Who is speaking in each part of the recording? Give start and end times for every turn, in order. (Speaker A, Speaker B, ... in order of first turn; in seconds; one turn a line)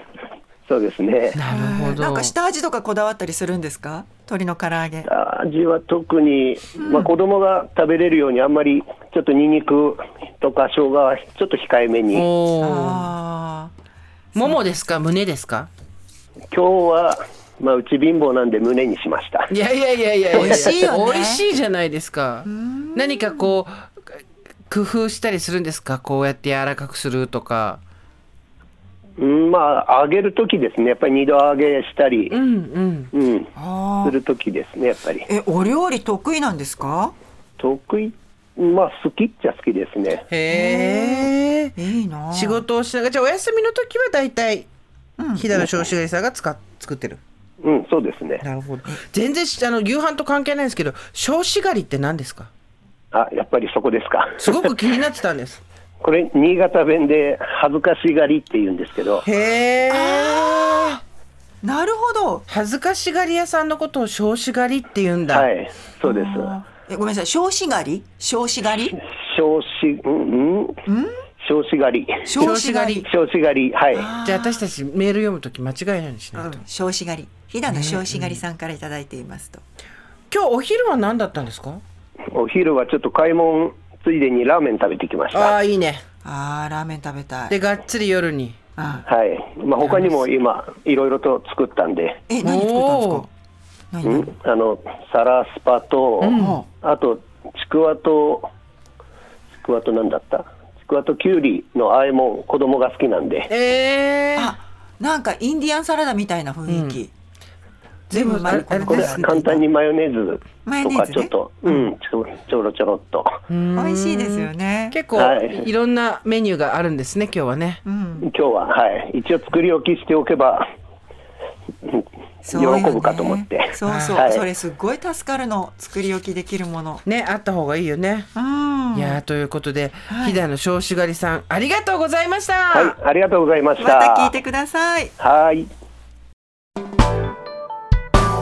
Speaker A: 0.7-1.4
Speaker B: 1.3-2.3
Speaker C: 1.5-5.1
Speaker A: 5.0-12.3
Speaker C: 6.8-7.1
Speaker B: 12.1-13.1
Speaker C: 12.6-13.7
Speaker C: 14.3-14.6
Speaker B: 14.3-15.7
Speaker A: 16.5-19.5
Speaker B: 19.5-24.0
Speaker C: 20.3-21.5
Speaker C: 22.4-23.5
Speaker B: 24.7-27.8
Speaker A: 29.2-32.4
Speaker B: 32.3-33.1
Speaker A: 33.1-33.5
Speaker C: 33.5-34.2
Speaker A: 34.0-35.3
Speaker C: 35.3-37.1
Speaker A: 37.6-40.2
Speaker B: 40.3-41.7
Speaker C: 40.5-42.6
Speaker B: 42.3-44.7
Speaker C: 45.2-45.8
Speaker B: 45.3-47.2
Speaker A: 47.6-48.4
Speaker B: 48.4-52.5
Speaker A: 53.1-54.6
Speaker B: 54.4-55.6
Speaker A: 56.0-59.2
Speaker B: 59.2-61.0
Speaker C: 59.9-61.0
Speaker C: 61.6-62.4
Speaker B: 62.5-65.5
Speaker A: 65.3-66.5
Speaker C: 66.0-69.0
Speaker A: 68.9-70.8
Speaker C: 70.8-71.2
Speaker A: 71.4-74.1
Speaker C: 72.2-73.1
Speaker B: 72.4-73.1
Speaker C: 73.9-74.6
Speaker B: 74.2-76.6
Speaker C: 76.3-79.6
Speaker B: 77.7-78.4
Speaker B: 80.3-81.8
Speaker A: 82.3-85.6
Speaker B: 85.3-86.0
Speaker C: 86.2-87.6
Speaker B: 87.5-88.6
Speaker C: 88.8-89.0
Speaker A: 89.0-92.2
Speaker B: 89.8-90.2
Speaker C: 92.3-93.3
Speaker B: 92.4-93.2
Speaker C: 93.9-94.3
Speaker A: 94.0-98.5
Speaker C: 96.2-96.7
Speaker A: 99.6-103.5
Speaker B: 103.5-104.5
Speaker C: 104.3-107.1
Speaker B: 106.7-107.0
Speaker C: 108.1-109.6
Speaker B: 108.1-109.4
Speaker A: 108.7-113.4
Speaker C: 110.6-111.9
Speaker B: 113.5-117.8
Speaker C: 113.7-115.0
Speaker A: 115.1-115.7
Speaker C: 117.8-118.3
Speaker A: 118.2-120.7
Speaker A: 121.8-124.4
Speaker C: 122.4-127.0
Speaker B: 123.8-124.2
Speaker B: 127.0-128.3
Speaker C: 128.3-129.2
Speaker B: 128.9-132.9
Speaker C: 130.1-130.4
Speaker A: 132.7-134.3
Speaker C: 133.8-135.1
Speaker A: 135.2-135.7